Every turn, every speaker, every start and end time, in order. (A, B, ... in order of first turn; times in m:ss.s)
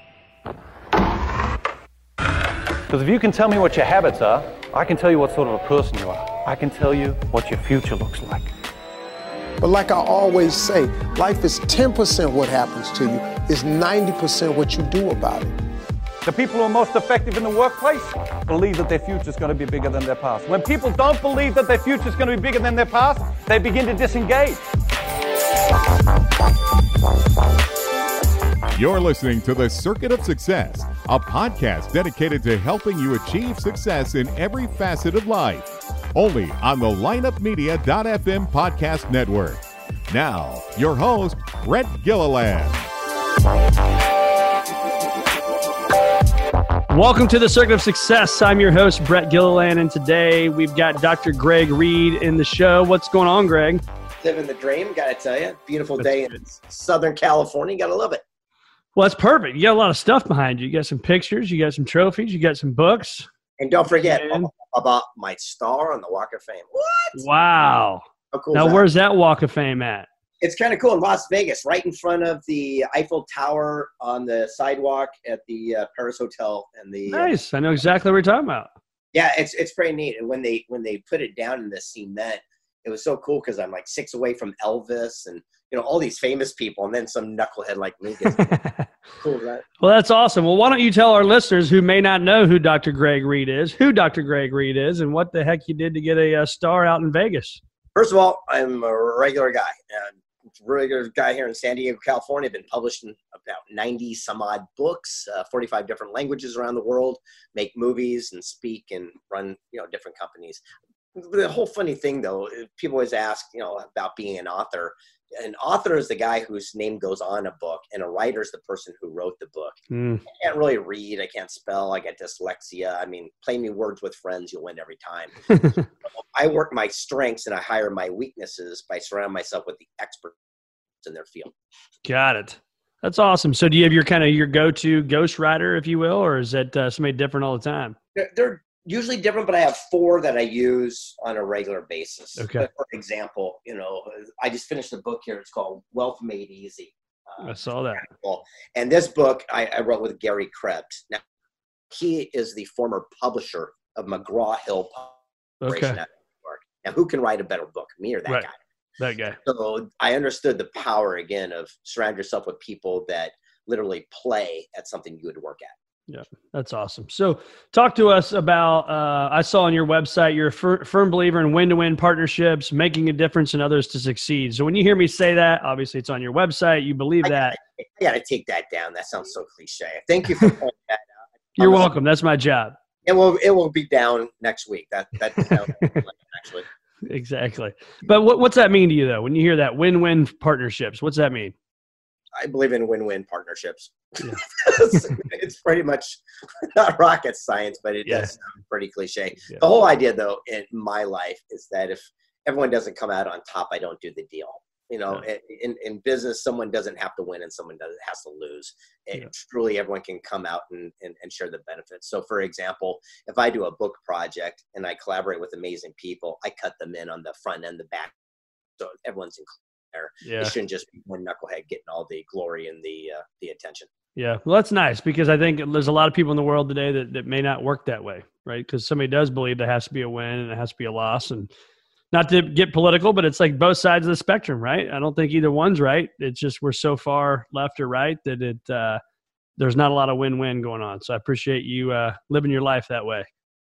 0:02.9-0:08.5 A
0:09.6-0:15.5 B
0:16.2-0:24.6 A
0:28.7-0:42.8 C
0:46.9-0:53.8 D
0:54.2-0:58.2 E
0:59.0-1:03.3 D
1:03.6-1:07.2 E
1:04.0-1:04.5 D
1:07.1-1:10.1 D
1:08.3-1:08.8 E
1:10.4-1:17.3 E
1:17.1-1:18.7 D
1:19.1-1:28.4 E
1:28.3-1:28.8 D
1:29.2-1:29.6 E
1:29.8-1:37.6 D
1:37.9-1:50.6 E
1:51.1-2:05.3 E
1:59.9-2:00.2 D
2:06.0-2:10.4 E
2:11.0-2:11.5 E
2:12.0-2:18.0 D
2:18.2-2:27.4 E
2:22.4-2:22.7 D
2:27.4-2:28.0 D
2:28.0-2:31.2 E
2:31.9-2:35.1 E
2:35.6-2:36.0 D
2:35.6-2:38.5 E
2:39.0-2:39.4 D
2:39.4-2:45.7 E
2:46.1-2:57.6 D
2:57.2-3:01.9 E
3:01.6-3:02.7 D
3:03.0-3:06.6 E
3:05.5-3:06.0 D
3:07.0-3:11.5 D
3:12.4-3:38.1 E
3:18.0-3:18.3 D
3:38.8-3:43.9 E
3:40.2-3:40.5 D
3:44.2-3:51.5 D
3:52.1-3:59.0 D
3:59.6-4:03.3 D